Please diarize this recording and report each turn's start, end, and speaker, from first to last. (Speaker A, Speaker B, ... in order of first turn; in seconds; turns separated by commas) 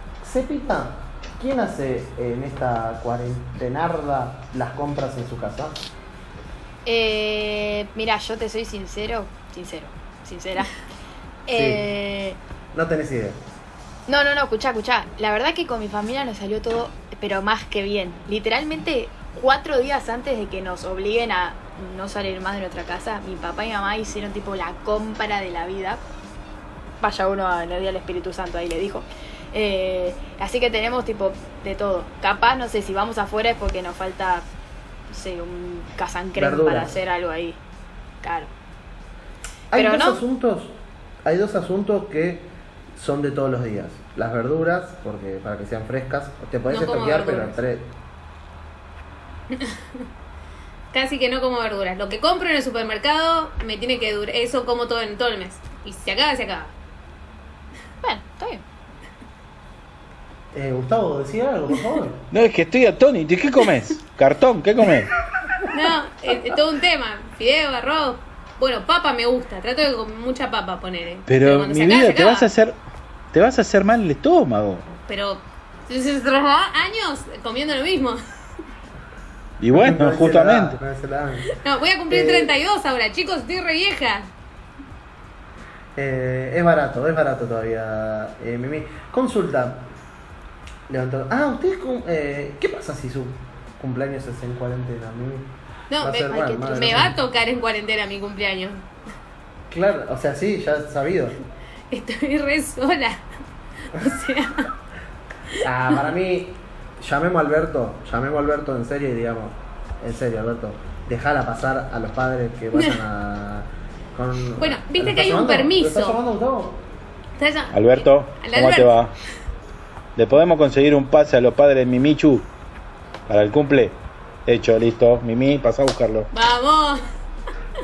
Speaker A: 0.2-5.8, Speaker B: 6.9-10.7, Speaker B: 11.5-12.4, Speaker A: 11.5-11.8, Speaker A: 12.7-13.4, Speaker B: 14.1-26.0, Speaker B: 27.0-34.5, Speaker B: 35.1-37.6, Speaker A: 36.4-37.0, Speaker B: 38.2-38.5, Speaker A: 39.7-47.9, Speaker B: 39.7-40.2, Speaker C: 46.7-47.6, Speaker C: 49.5-50.0, Speaker C: 50.9-56.7, Speaker B: 58.0-58.6, Speaker A: 60.5-62.2, Speaker D: 62.3-65.1, Speaker C: 65.7-72.5, Speaker D: 71.3-72.8, Speaker D: 73.3-74.9, Speaker C: 75.1-78.2, Speaker D: 79.6-80.8, Speaker A: 79.7-81.5, Speaker C: 81.5-84.3, Speaker A: 82.1-82.5, Speaker A: 86.0-89.9, Speaker A: 90.9-97.2, Speaker C: 95.9-98.8, Speaker B: 96.3-97.0, Speaker A: 99.7-101.4, Speaker C: 101.9-103.2, Speaker C: 103.9-104.7, Speaker A: 105.6-116.8, Speaker C: 114.6-116.2, Speaker C: 117.4-119.0, Speaker D: 117.7-119.1, Speaker D: 120.2-122.5, Speaker D: 123.3-126.3, Speaker C: 126.3-127.0